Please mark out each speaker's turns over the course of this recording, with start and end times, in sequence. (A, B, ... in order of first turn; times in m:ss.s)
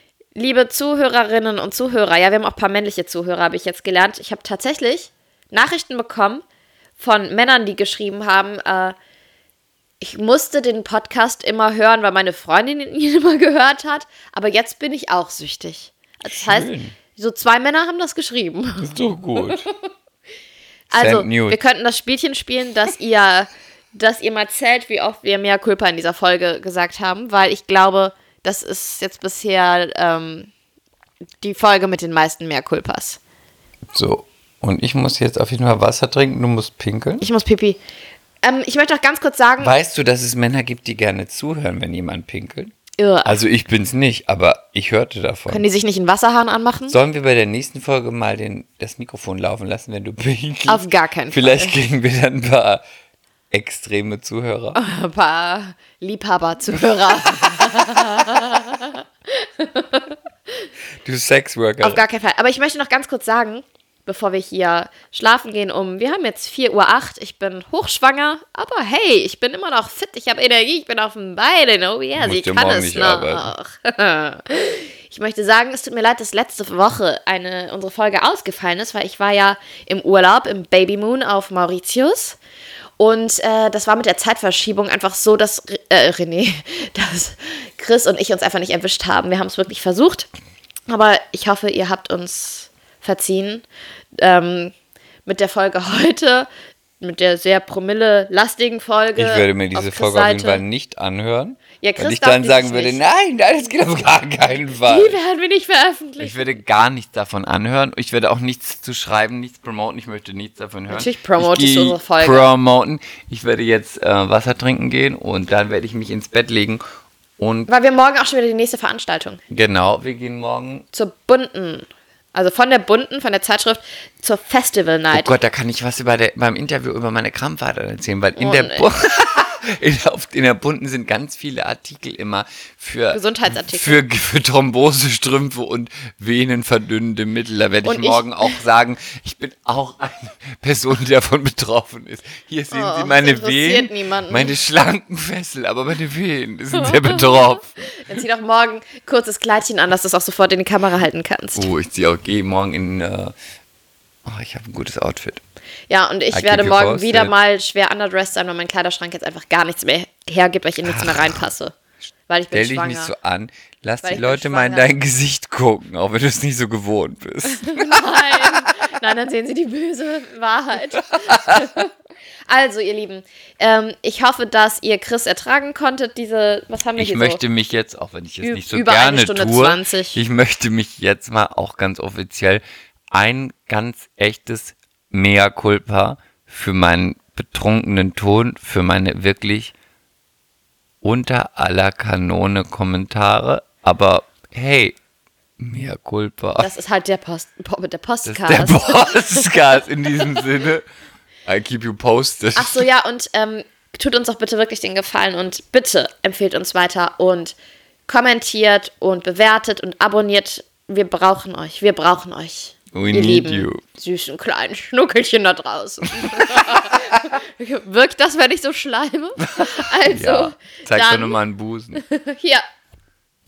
0:00.3-0:06.4 A
0:07.0-0:09.0 A
0:10.0-0:19.0 A
0:16.3-0:17.0 B
0:18.8-0:19.7 B
0:20.9-0:30.5 A
0:20.9-0:21.6 B
0:31.4-0:33.2 A
0:33.9-0:37.3 B
0:37.2-0:37.8 A
0:38.4-0:39.7 A
0:39.6-0:45.6 B
0:43.0-0:43.4 A
0:45.5-0:47.0 A
0:46.9-0:52.8 B
0:50.7-0:51.7 A
0:53.5-0:54.8 B
0:54.7-1:00.7 A
0:57.4-0:58.3 B
1:01.0-1:02.0 B
1:01.8-1:22.4 A
1:12.2-1:13.5 B
1:23.0-1:30.3 A
1:30.9-1:33.6 A
1:34.2-1:34.7 A
1:35.2-1:36.5 A
1:37.0-1:40.6 A
1:39.2-1:45.2 B
1:41.8-1:43.0 A
1:44.9-1:46.5 A
1:46.2-1:56.8 B
1:50.9-1:52.5 A
1:57.4-1:57.7 B
1:57.7-1:59.4 A
1:59.5-2:00.8 B
2:00.9-2:05.3 A
2:05.1-2:27.8 B
2:08.4-2:08.8 A
2:13.1-2:14.0 A
2:17.8-2:18.6 A
2:22.7-2:24.5 A
2:27.0-2:31.7 A
2:31.5-2:33.3 B
2:34.2-2:35.4 B
2:35.9-2:41.8 A
2:36.3-2:37.3 B
2:40.8-2:41.4 B
2:42.3-2:43.1 A
2:42.5-2:48.7 B
2:44.0-2:44.9 A
2:47.5-2:51.9 A
2:51.0-2:51.7 B
2:52.5-2:57.4 A
2:57.0-3:09.7 B
2:58.4-3:00.2 A
3:11.0-3:15.0 B
3:15.6-3:16.7 B
3:16.6-3:19.4 A
3:18.2-3:20.8 B
3:21.4-3:22.8 B
3:22.6-3:27.5 A
3:28.1-3:41.4 A
3:32.9-3:33.8 B
3:36.2-3:37.0 B
3:39.4-3:42.0 B
3:42.0-3:42.6 A